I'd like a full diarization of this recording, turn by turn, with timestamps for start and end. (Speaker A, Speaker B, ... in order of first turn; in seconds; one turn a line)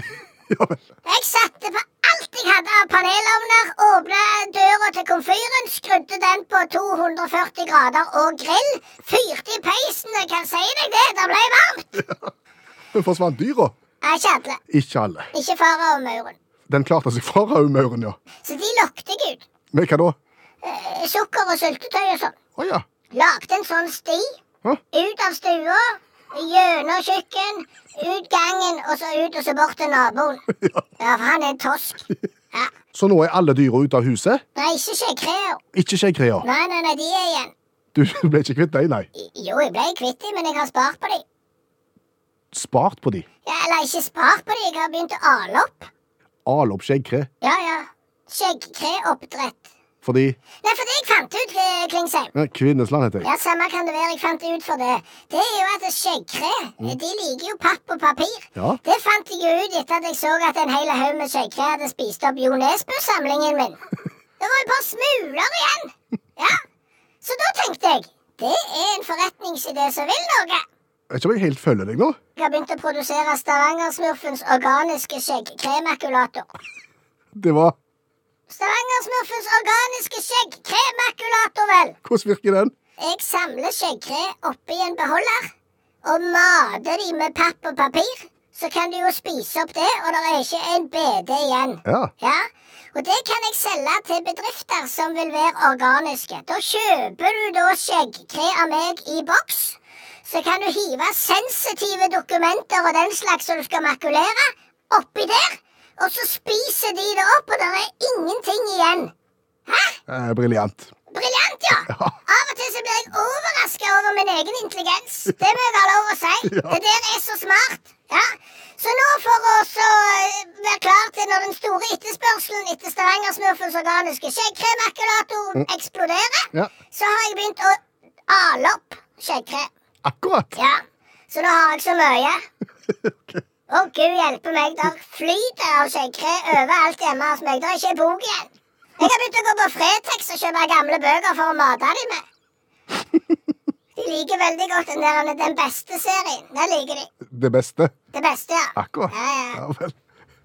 Speaker A: 0.5-0.8
Speaker B: 1.1-12.0
Speaker A: 12.9-13.7
Speaker B: 14.0-14.6
Speaker A: 14.7-15.3
Speaker B: 15.3-16.4
Speaker A: 16.7-18.2
Speaker B: 18.4-19.5
Speaker A: 19.7-20.2
Speaker B: 20.6-22.4
Speaker A: 22.6-22.9
Speaker B: 23.1-24.4
Speaker B: 24.9-30.4
Speaker B: 31.0-32.7
Speaker A: 32.9-34.4
Speaker B: 34.5-35.6
Speaker A: 35.7-36.5
Speaker B: 36.4-37.5
Speaker A: 38.0-39.1
Speaker B: 39.1-41.2
Speaker A: 42.5-43.3
Speaker B: 43.5-45.9
Speaker A: 46.5-47.3
Speaker B: 47.4-49.7
Speaker A: 50.0-50.4
Speaker B: 50.6-52.3
Speaker A: 52.4-53.3
Speaker B: 53.2-63.8
Speaker B: 64.4-66.6
Speaker B: 67.2-70.6
Speaker A: 71.1-72.2
Speaker B: 72.4-76.5
Speaker A: 77.3-77.8
Speaker B: 78.5-82.0
Speaker A: 82.0-82.7
Speaker B: 83.0-85.5
Speaker B: 86.0-109.1
Speaker A: 91.9-92.1
Speaker B: 109.7-110.0
Speaker A: 110.1-110.9
Speaker B: 111.1-129.7
Speaker A: 116.4-116.8
Speaker A: 130.1-130.6
Speaker B: 130.6-132.4
Speaker A: 133.1-133.4
Speaker B: 133.7-142.2
Speaker B: 144.0-147.1
Speaker A: 147.3-147.9
Speaker B: 148.1-149.6
Speaker A: 148.8-149.9